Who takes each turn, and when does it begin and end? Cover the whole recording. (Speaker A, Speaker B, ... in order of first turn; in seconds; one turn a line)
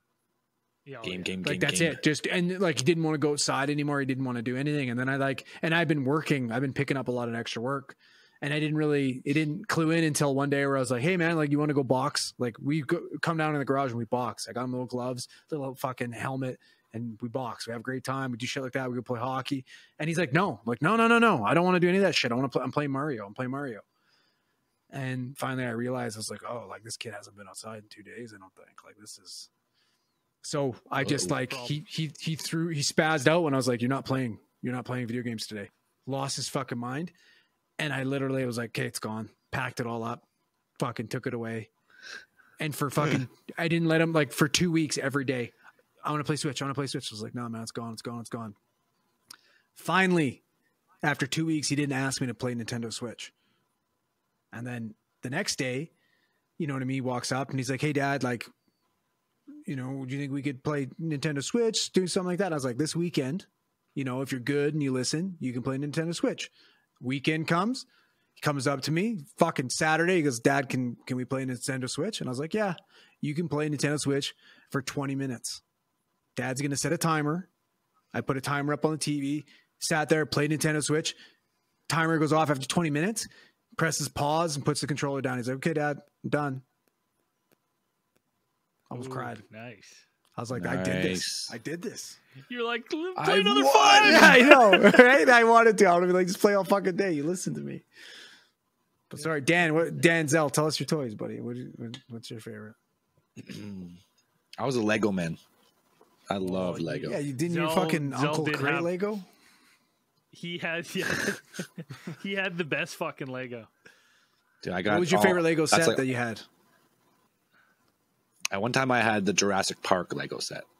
Speaker A: 0.8-1.4
Speaker B: 1.0-2.0
Speaker C: 1.4-23.8
Speaker C: 24.9-29.5
Speaker C: 30.4-37.1
Speaker B: 31.0-31.4
Speaker A: 31.3-31.9
Speaker C: 37.8-40.2
Speaker C: 40.8-41.7
Speaker C: 42.6-48.5
Speaker C: 49.7-50.4
Speaker C: 51.0-53.3
Speaker C: 54.5-55.9
Speaker C: 56.6-58.5
Speaker C: 59.6-67.8
Speaker C: 68.4-75.6
Speaker C: 76.3-77.5
Speaker C: 78.1-81.2
Speaker C: 81.9-86.6
Speaker C: 88.9-89.4
Speaker A: 88.9-90.0
Speaker C: 90.3-92.2
Speaker B: 90.5-91.5
Speaker A: 92.4-94.9
Speaker B: 93.2-94.4
Speaker C: 94.0-97.8
Speaker C: 99.1-102.8
Speaker B: 103.4-104.0
Speaker B: 104.6-105.4
Speaker B: 106.3-107.2
Speaker A: 106.4-108.9
Speaker C: 107.0-109.3
Speaker A: 110.3-113.7
Speaker B: 114.6-116.1
Speaker C: 114.9-116.5
Speaker B: 118.5-120.7